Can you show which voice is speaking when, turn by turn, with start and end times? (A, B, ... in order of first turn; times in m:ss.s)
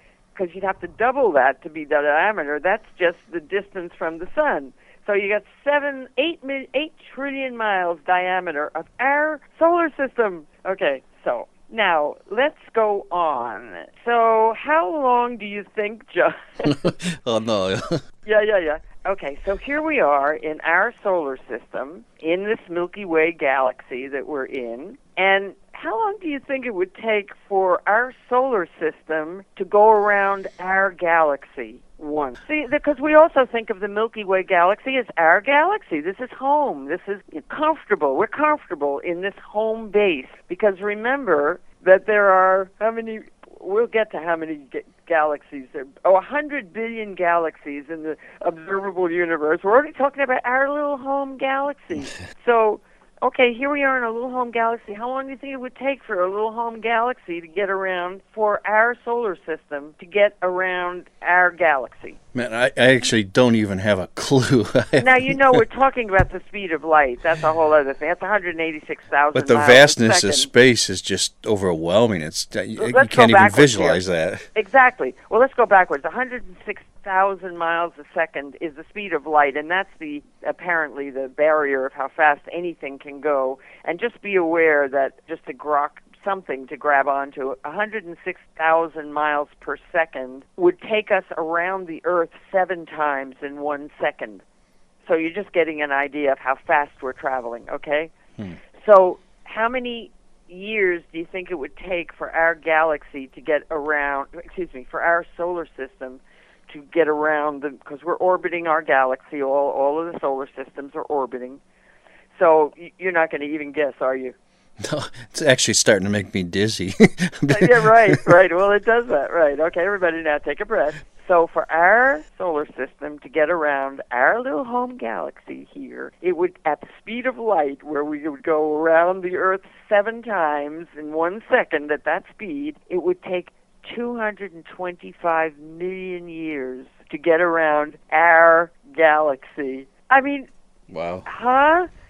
0:00.4-0:16.7 A
0:16.7-0:18.0 B
0:18.2-1:02.2 A
1:02.3-1:05.6 B
1:05.0-1:10.5 A
1:09.3-1:14.5 B
1:12.8-1:14.0 A
1:14.6-1:34.4 A
1:35.0-1:38.1 A
1:38.7-1:51.6 A
1:52.3-1:54.4 A
1:54.8-1:58.3 B
1:57.5-2:20.5 A
2:20.9-2:21.3 B
2:21.3-2:21.9 A